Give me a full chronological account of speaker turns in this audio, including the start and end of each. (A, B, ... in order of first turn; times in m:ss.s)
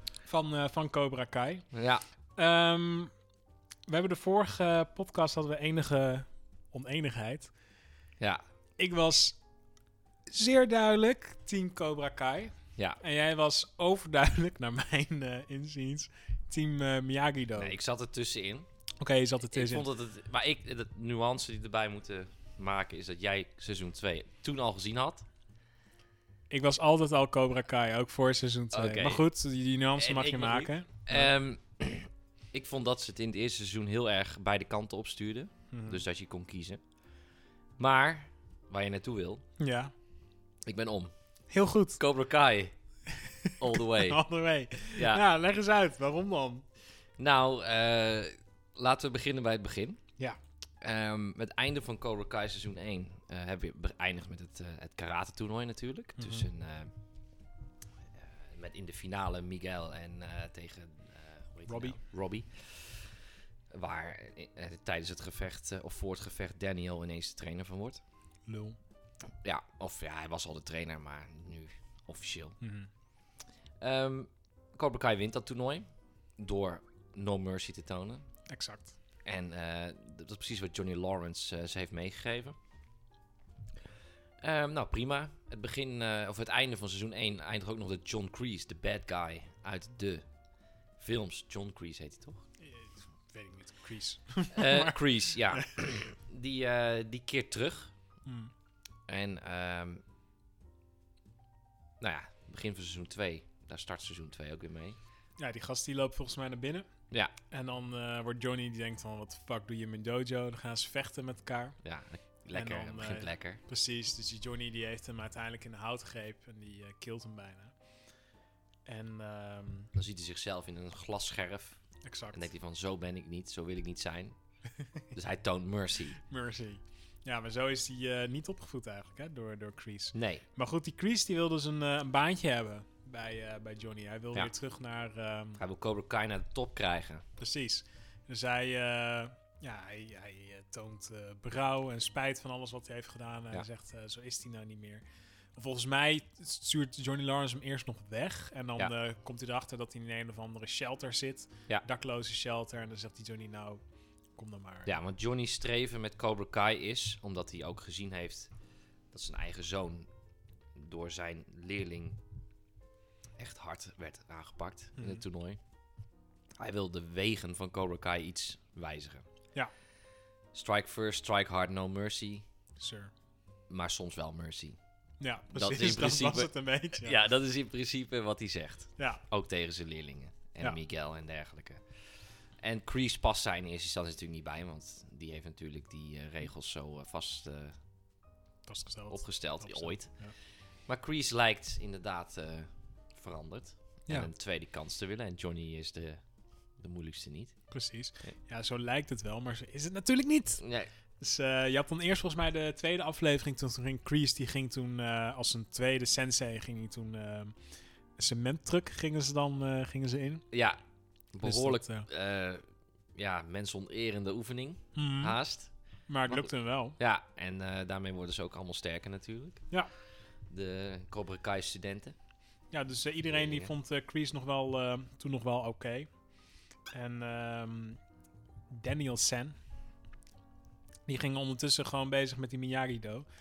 0:00.2-0:01.7 A
0:01.7-0:02.0 B
0:02.4-0:03.1 A
0:03.9-0:07.5 A
0:08.8-0:09.4 A
0:10.3-0:17.7 A
0:17.6-0:18.7 B
0:19.0-0:19.9 A
0:19.5-0:25.2 B
0:26.5-0:31.3 A
0:28.7-0:29.2 B
0:30.0-0:36.8 B
0:35.7-0:36.0 A
0:37.8-0:39.4 B
0:39.6-0:39.9 A
0:40.6-0:41.1 B
0:41.5-0:42.0 A
0:42.0-0:42.7 B
0:43.2-0:46.6 A
0:43.6-0:44.2 B
0:45.0-0:45.2 B
0:47.2-0:50.0 B
0:50.8-0:56.9 B
0:56.2-0:56.5 A
0:58.2-1:03.2 B
1:01.7-1:02.0 A
1:03.7-1:08.0 B
1:08.5-1:08.8 A
1:09.4-1:12.6 B
1:12.6-1:12.9 A
1:13.8-1:15.8 B
1:16.4-1:18.2 B
1:18.5-1:18.9 A
1:19.2-1:22.6 B
1:24.4-1:30.2 B
1:31.0-1:32.4 B
1:32.6-1:35.0 A
1:34.5-1:37.9 B
1:38.2-1:38.5 A
1:39.1-1:40.0 B
1:42.0-1:45.0 B
1:45.4-1:46.9 A
1:47.5-1:51.8 A
1:51.8-1:53.6 B
1:52.5-1:57.7 A
1:58.8-1:59.9 A
1:59.9-2:01.8 B
2:02.0-2:02.5 A
2:02.3-2:04.4 B
2:05.1-2:06.2 B
2:06.2-2:15.6 A
2:10.1-2:10.4 B
2:15.6-2:17.2 B
2:17.4-2:25.0 A
2:25.6-2:33.8 A
2:34.4-2:34.9 A
2:34.8-2:38.5 B
2:39.1-2:40.1 B
2:40.8-2:42.2 B
2:43.4-2:45.6 B
2:45.0-2:45.2 A
2:46.6-2:49.2 B
2:50.5-2:52.4 B
2:52.8-2:53.1 A
2:53.7-2:54.8 B
2:55.2-2:57.2 A
2:55.5-3:01.8 B
3:02.6-3:07.7 B
3:08.6-3:10.3 A
3:09.1-3:10.2 B
3:10.8-3:16.2 B
3:16.8-3:17.6 B
3:17.7-3:20.6 A
3:20.6-3:20.9 B
3:21.2-3:27.6 A
3:28.2-3:30.4 A
3:30.5-3:30.8 B
3:31.3-3:32.6 B
3:31.4-3:32.1 A
3:33.1-3:35.7 B
3:34.9-3:35.4 A
3:36.1-3:37.0 A
3:36.2-3:39.6 B
3:40.5-3:42.1 B
3:42.7-3:46.1 A
3:43.3-3:43.7 B
3:46.9-3:48.0 A
3:48.7-3:49.6 A
3:51.1-3:53.2 A